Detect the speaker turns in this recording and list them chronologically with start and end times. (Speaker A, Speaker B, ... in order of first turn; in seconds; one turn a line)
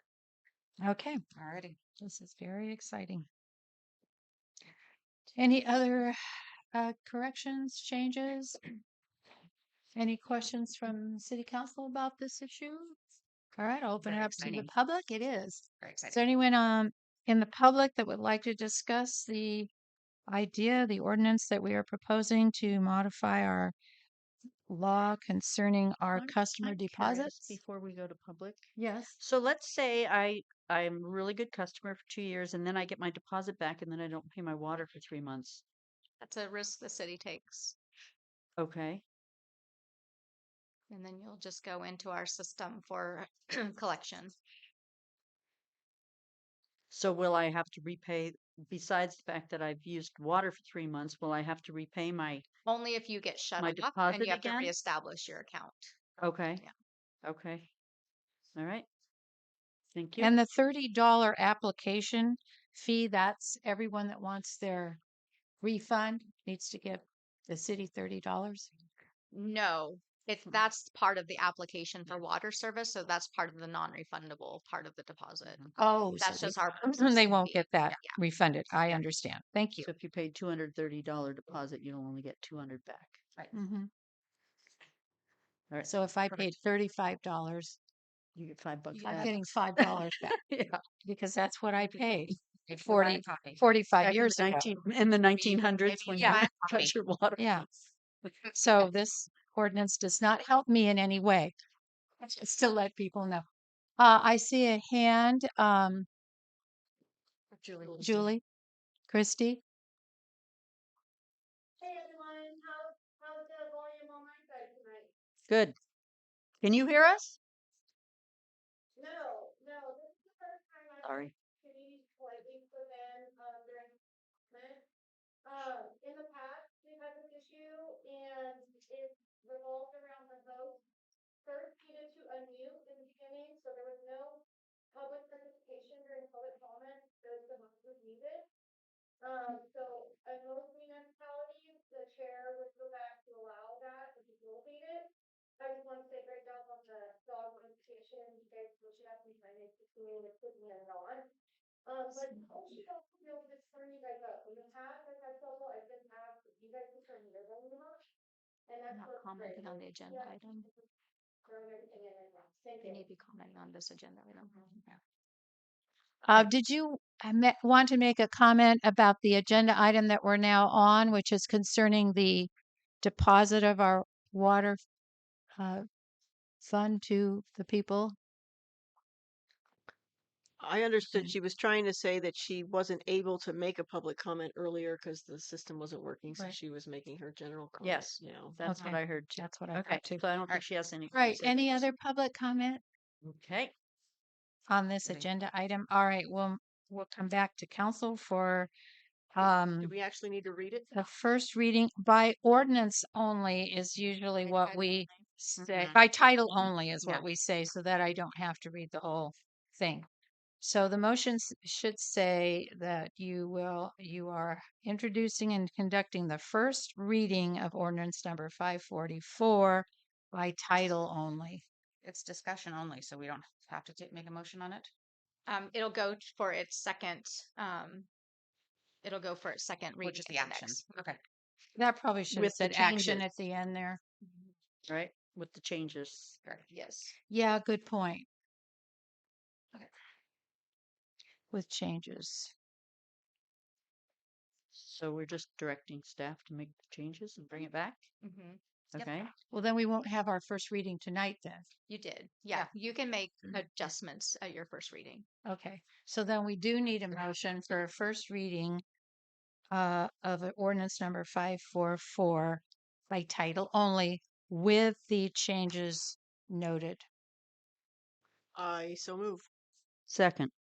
Speaker A: 0.8-1.2
Speaker B: 1.4-1.8
Speaker A: 2.0-3.3
Speaker A: 5.3-6.2
Speaker A: 6.7-8.6
Speaker A: 9.9-13.0
Speaker A: 13.5-19.7
Speaker B: 14.0-14.7
Speaker B: 15.8-16.2
Speaker A: 20.3-23.7
Speaker A: 24.7-27.6
Speaker C: 26.1-35.6
Speaker A: 28.8-29.2
Speaker D: 36.2-37.8
Speaker C: 38.6-39.0
Speaker D: 40.9-44.4
Speaker C: 46.9-52.5
Speaker D: 52.6-56.0
Speaker C: 53.6-54.7
Speaker C: 56.2-56.6
Speaker C: 57.2-57.7
Speaker C: 58.5-58.9
Speaker C: 59.9-60.3
Speaker A: 60.2-65.0
Speaker A: 65.6-68.7
Speaker D: 69.3-78.2
Speaker C: 75.4-75.7
Speaker A: 75.8-79.9
Speaker C: 79.8-83.2
Speaker A: 83.5-83.9
Speaker C: 85.7-86.4
Speaker A: 85.8-87.8
Speaker C: 88.3-90.8
Speaker A: 89.0-90.4
Speaker A: 91.0-94.7
Speaker B: 92.7-93.6
Speaker C: 94.0-97.7
Speaker B: 95.5-96.9
Speaker A: 97.4-97.7
Speaker A: 98.5-101.5
Speaker A: 102.2-103.4
Speaker A: 104.0-106.1
Speaker C: 107.6-108.3
Speaker A: 108.0-108.4
Speaker A: 109.1-109.6
Speaker E: 111.8-115.1
Speaker C: 115.5-115.8
Speaker C: 116.6-117.4
Speaker E: 119.0-124.0
Speaker C: 121.0-121.3
Speaker E: 124.5-124.8
Speaker E: 125.4-130.8
Speaker E: 131.4-134.4
Speaker E: 134.9-138.4
Speaker E: 139.2-145.1
Speaker E: 145.6-151.3
Speaker E: 151.8-158.0
Speaker D: 152.1-152.6
Speaker E: 158.7-160.9
Speaker D: 158.9-160.7
Speaker E: 161.4-163.0
Speaker D: 162.8-164.9
Speaker A: 166.3-172.5
Speaker A: 173.0-174.8
Speaker A: 175.6-175.8
Speaker A: 176.6-178.2
Speaker F: 180.6-188.6
Speaker C: 187.8-191.9
Speaker A: 188.7-190.2
Speaker A: 191.1-192.8
Speaker C: 193.2-193.7
Speaker A: 194.7-198.7
Speaker A: 199.3-199.9
Speaker F: 199.7-200.9
Speaker A: 200.9-210.1
Speaker D: 204.4-205.2
Speaker B: 205.6-206.0
Speaker A: 210.6-221.6
Speaker B: 222.0-224.9
Speaker D: 225.5-228.1
Speaker D: 229.0-230.8
Speaker B: 230.0-231.2
Speaker A: 231.8-234.0
Speaker C: 232.3-233.2
Speaker C: 234.9-236.4
Speaker D: 236.7-237.1
Speaker A: 237.3-238.3
Speaker A: 241.5-242.5
Speaker C: 244.7-248.1
Speaker D: 248.2-249.2
Speaker C: 248.9-249.3
Speaker A: 249.5-251.7
Speaker D: 251.9-255.2
Speaker A: 255.4-258.8
Speaker A: 259.7-267.0
Speaker F: 268.5-269.5
Speaker C: 270.1-270.5